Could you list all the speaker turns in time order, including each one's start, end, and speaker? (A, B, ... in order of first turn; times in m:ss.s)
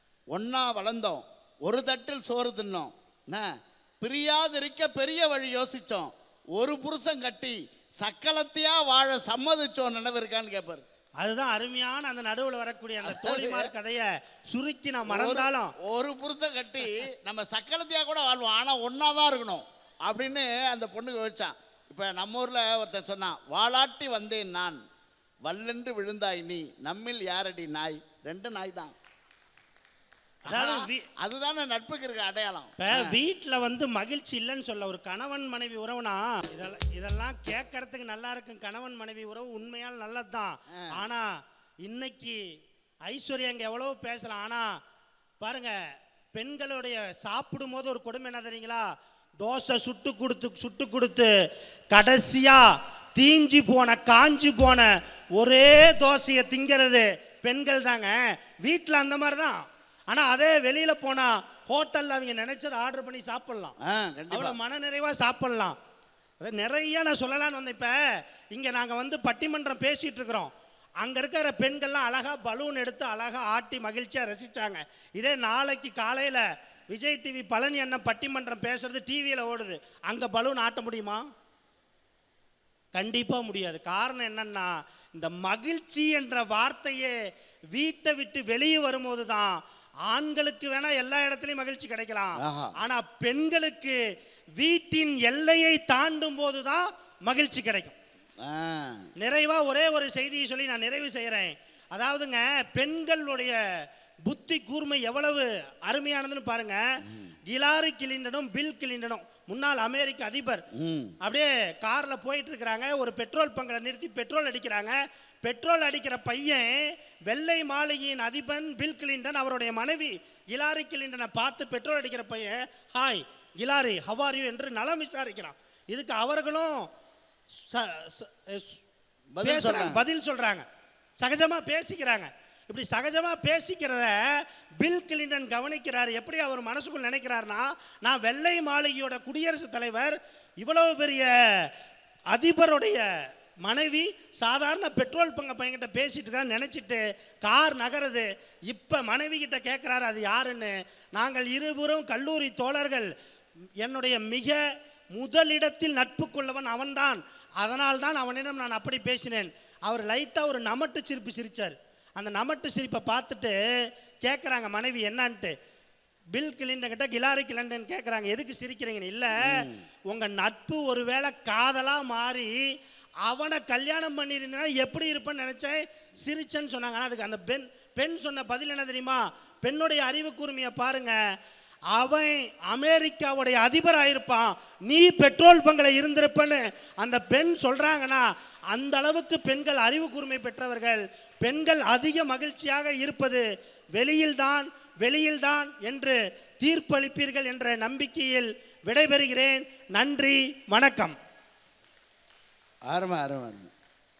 0:00.3-0:10.8 A
0:11.2-0:15.7 B
0:13.0-0:13.7 A
0:15.1-0:24.8 A
0:25.4-0:28.9 A
0:30.5-0:31.1 B
0:30.5-0:33.2 A
0:32.8-0:41.3 B
0:41.8-0:42.4 B
0:43.0-0:44.7 B
0:45.4-0:45.8 B
0:46.3-0:48.9 B
0:49.4-0:51.3 B
0:51.9-1:03.7 B
1:03.8-1:04.6 A
1:04.3-1:05.8 B
1:06.4-1:08.0 B
1:08.5-1:21.2 B
1:22.9-1:27.1 B
1:27.7-1:34.0 B
1:32.4-1:32.8 A
1:34.6-1:37.9 B
1:38.4-1:39.1 A
1:39.2-1:46.8 B
1:47.4-1:50.6 B
1:50.7-1:51.1 A
1:51.2-2:06.9 B
2:07.6-2:08.8 B
2:09.3-2:10.0 A
2:09.4-2:10.6 B
2:11.2-2:21.7 B
2:22.3-2:23.0 B
2:23.6-2:33.1 B
2:33.8-2:34.6 B
2:35.1-2:43.6 B
2:44.2-2:45.5 B
2:46.3-2:52.7 B
2:49.4-2:49.8 A
2:53.2-3:01.2 B
3:01.9-3:21.2 B
3:22.9-3:23.7 A